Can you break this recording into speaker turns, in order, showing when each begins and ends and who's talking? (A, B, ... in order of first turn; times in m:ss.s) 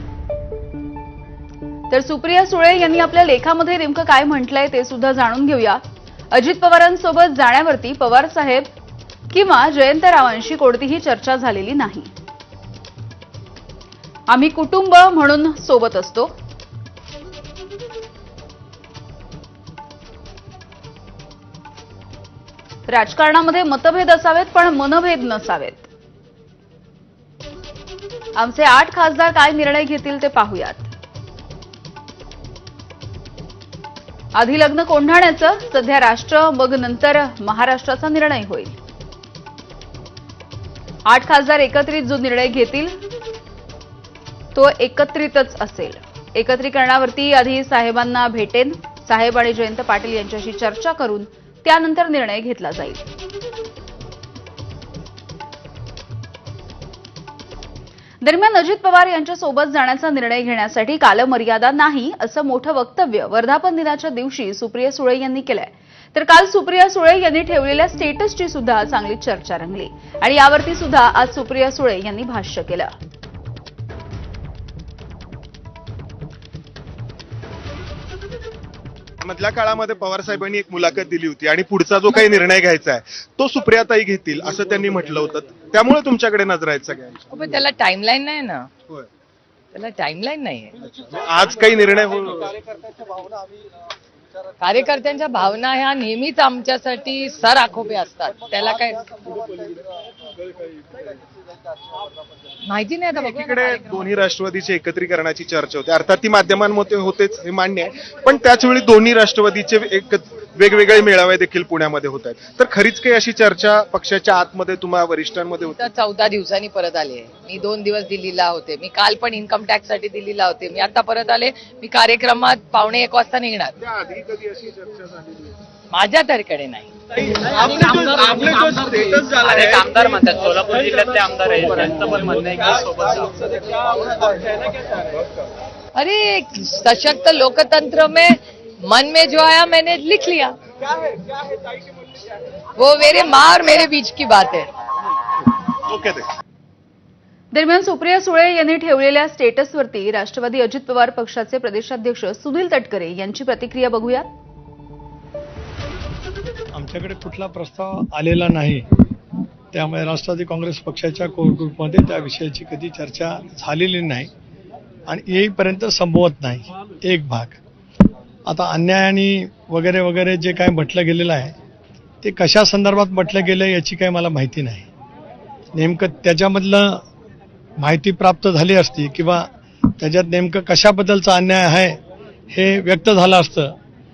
0:01.9-0:05.8 A
0:06.3-0:08.7 A
0:09.3-0:12.1 A
0:14.3-0:16.3 A
0:22.9-0:25.9 A
0:28.4-0:30.9 A
0:34.4-0:38.8 A
0:41.1-0:43.0 A
0:44.6-0:53.0 A
0:58.2-1:12.9 A
1:19.2-1:27.2 B
1:27.3-1:28.7 C
1:29.7-1:30.8 C
1:31.0-1:32.6 B
1:34.6-1:39.4 C
1:42.7-1:44.0 C
1:43.2-1:55.9 B
1:55.7-2:03.8 C
2:03.8-2:05.5 B
2:05.9-2:06.9 C
2:07.5-2:09.3 B
2:09.3-2:13.4 D
2:16.0-2:20.6 C
2:22.8-2:24.7 C
2:25.8-2:26.3 B
2:27.5-2:34.3 A
2:36.7-2:38.9 E
2:39.7-2:44.3 E
2:45.1-2:47.6 E
2:48.5-2:51.6 E
2:52.2-2:54.9 E
2:55.7-2:57.0 E
2:57.8-2:59.5 E
3:00.0-3:02.0 E
3:02.5-3:03.8 E